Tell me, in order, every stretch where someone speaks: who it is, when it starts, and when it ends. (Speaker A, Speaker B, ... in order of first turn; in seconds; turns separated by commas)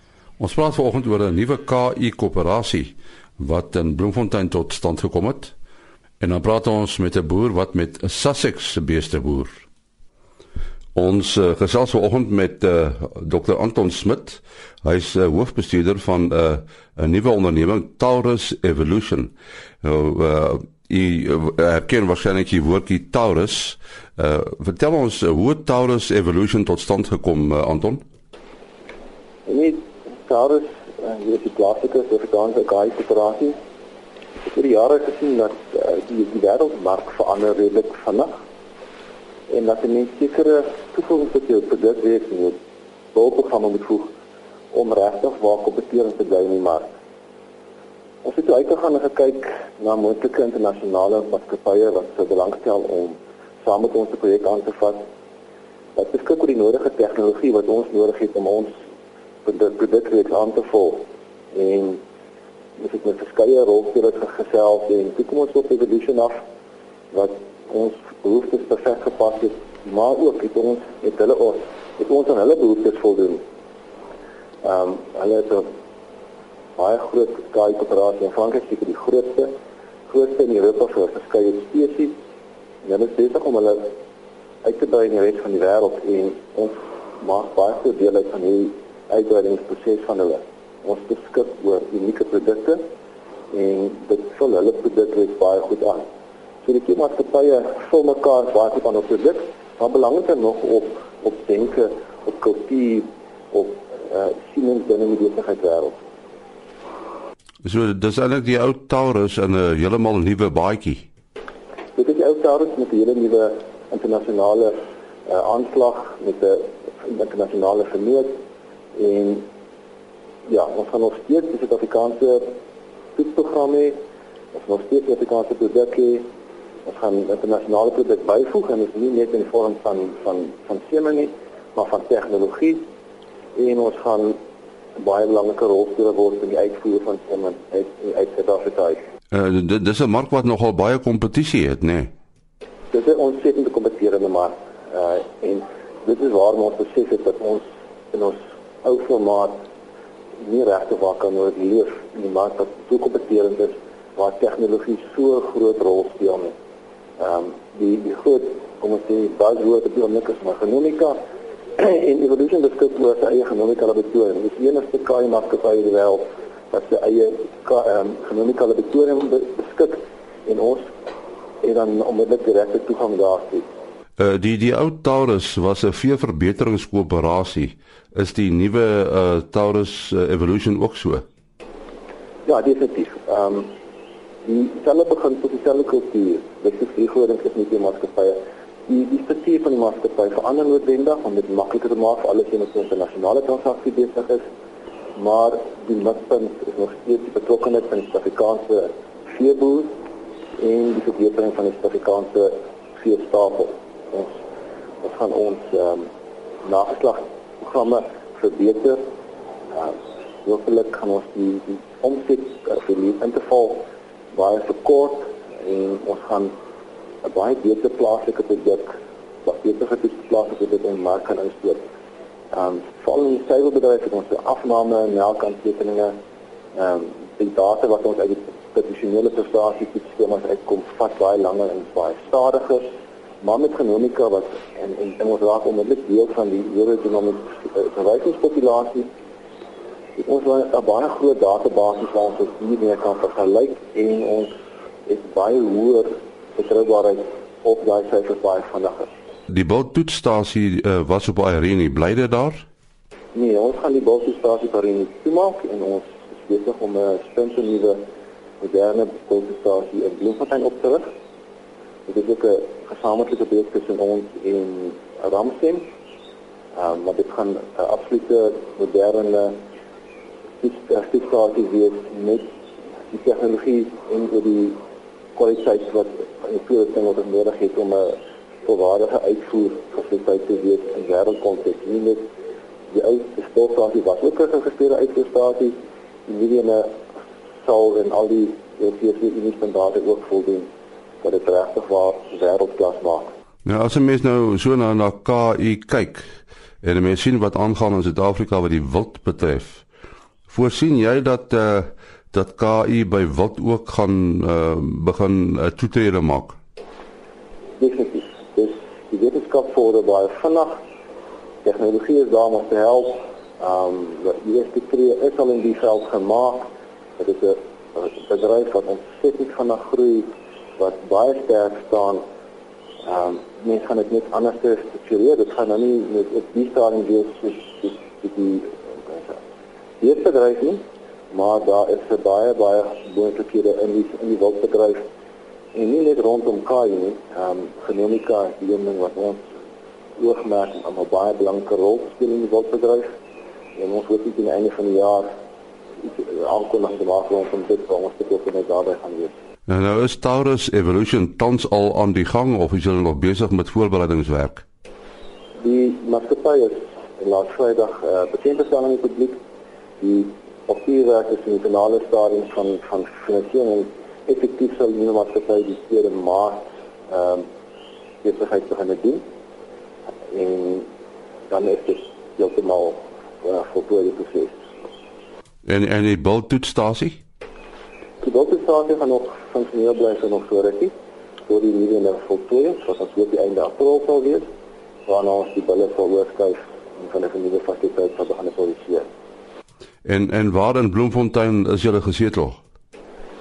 Speaker A: 0.4-5.5, Speaker A: 6.2-9.6, Speaker A: 10.9-28.0, Speaker B: 29.5-33.6, Speaker B: 34.4-38.3, Speaker B: 39.5-42.6, Speaker B: 43.1-44.1, Speaker B: 44.7-46.9, Speaker B: 48.2-55.0, Speaker B: 56.0-58.7, Speaker B: 59.5-62.0, Speaker B: 62.8-66.4, Speaker B: 67.1-73.4, Speaker B: 74.6-75.7, Speaker B: 76.8-79.5, Speaker B: 80.1-82.2, Speaker B: 82.8-83.9, Speaker B: 84.6-92.8, Speaker B: 93.5-96.0, Speaker B: 96.6-106.0, Speaker A: 107.6-111.1, Speaker B: 112.0-114.7, Speaker B: 115.3-118.3, Speaker B: 119.0-119.5, Speaker B: 120.5-122.5, Speaker B: 123.2-124.0, Speaker B: 124.5-126.2, Speaker B: 126.9-132.8, Speaker B: 133.6-134.4, Speaker B: 135.0-139.0, Speaker A: 139.3-142.1, Speaker B: 142.9-149.6, Speaker B: 150.4-156.5, Speaker B: 157.2-161.2, Speaker B: 161.8-170.9, Speaker B: 171.6-173.7, Speaker A: 174.2-181.2, Speaker B: 182.5-183.7, Speaker B: 184.4-194.4, Speaker B: 195.2-199.9, Speaker B: 200.6-204.4, Speaker B: 205.0-206.1, Speaker B: 206.7-209.0, Speaker B: 209.7-216.5, Speaker B: 217.2-218.9, Speaker B: 219.4-221.8, Speaker B: 222.5-226.2, Speaker B: 226.8-232.8, Speaker B: 233.4-239.1, Speaker B: 240.2-244.5, Speaker B: 245.1-249.1, Speaker A: 249.5-252.6, Speaker B: 253.3-258.0, Speaker B: 258.6-261.0, Speaker B: 262.1-265.9, Speaker B: 266.8-269.6, Speaker B: 270.6-272.4, Speaker B: 273.1-274.8, Speaker B: 275.4-282.2, Speaker B: 282.9-285.8, Speaker B: 286.3-287.0, Speaker B: 287.6-290.7, Speaker B: 291.2-293.3, Speaker A: 293.6-299.9, Speaker A: 300.5-306.6, Speaker B: 307.8-310.8, Speaker B: 311.6-316.6, Speaker B: 317.2-322.2, Speaker B: 323.1-329.4, Speaker B: 330.0-335.1, Speaker B: 335.7-339.4, Speaker B: 340.2-343.1, Speaker B: 343.8-345.3, Speaker B: 346.0-349.3, Speaker A: 349.7-354.6, Speaker B: 355.6-359.4, Speaker B: 360.0-367.4, Speaker B: 368.2-369.2, Speaker B: 370.3-370.9, Speaker B: 371.5-374.6, Speaker A: 375.6-377.2, Speaker B: 378.2-380.9, Speaker B: 381.5-384.5, Speaker B: 385.1-389.1, Speaker A: 390.1-392.6